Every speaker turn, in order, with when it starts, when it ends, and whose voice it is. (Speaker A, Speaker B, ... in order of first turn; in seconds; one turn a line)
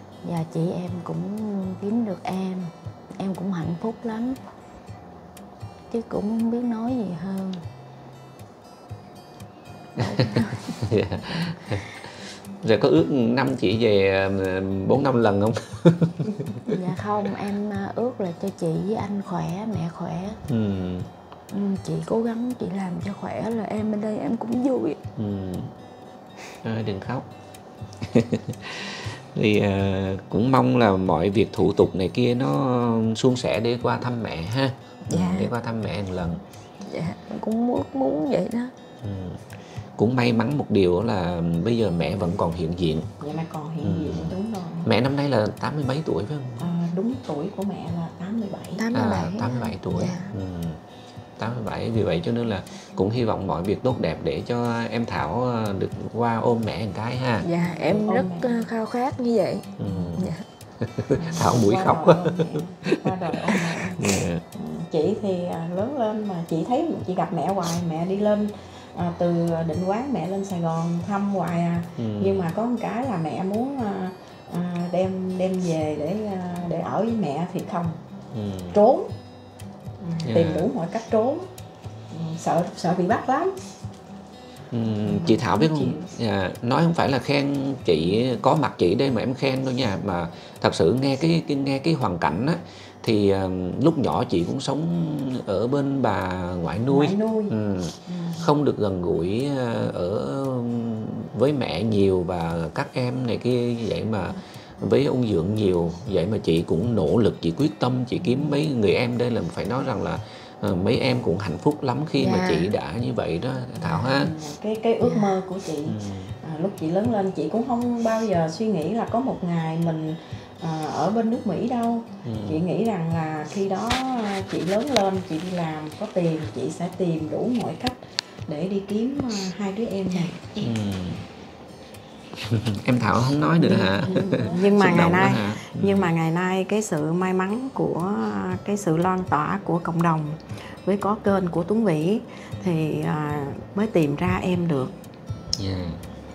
Speaker A: 0.2-4.4
Speaker A: 5.9-7.6
Speaker B: 10.0-16.8
Speaker A: 10.0-10.8
Speaker A: 16.7-20.4
Speaker B: 20.5-21.1
Speaker A: 21.5-25.0
Speaker B: 25.2-25.7
Speaker B: 26.6-27.3
Speaker B: 28.0-36.4
Speaker A: 35.1-35.5
Speaker A: 36.9-38.7
Speaker B: 39.0-39.4
Speaker B: 40.0-43.1
Speaker C: 43.2-44.9
Speaker B: 43.8-46.7
Speaker C: 46.6-48.8
Speaker A: 48.8-50.3
Speaker B: 48.9-50.8
Speaker B: 51.4-57.5
Speaker A: 57.4-60.4
Speaker C: 57.5-58.7
Speaker B: 59.8-64.4
Speaker C: 61.1-78.0
Speaker B: 72.0-72.5
Speaker B: 78.3-78.8
Speaker C: 78.7-79.1
Speaker C: 80.0-81.5
Speaker B: 80.2-80.7
Speaker C: 82.1-83.6
Speaker B: 84.7-114.4
Speaker C: 85.1-86.1
Speaker C: 96.9-97.6
Speaker A: 112.2-112.7
Speaker C: 113.8-130.5
Speaker B: 115.9-116.3
Speaker B: 122.2-122.6
Speaker B: 130.6-131.2
Speaker B: 132.4-136.1
Speaker C: 133.6-144.9
Speaker B: 145.5-146.0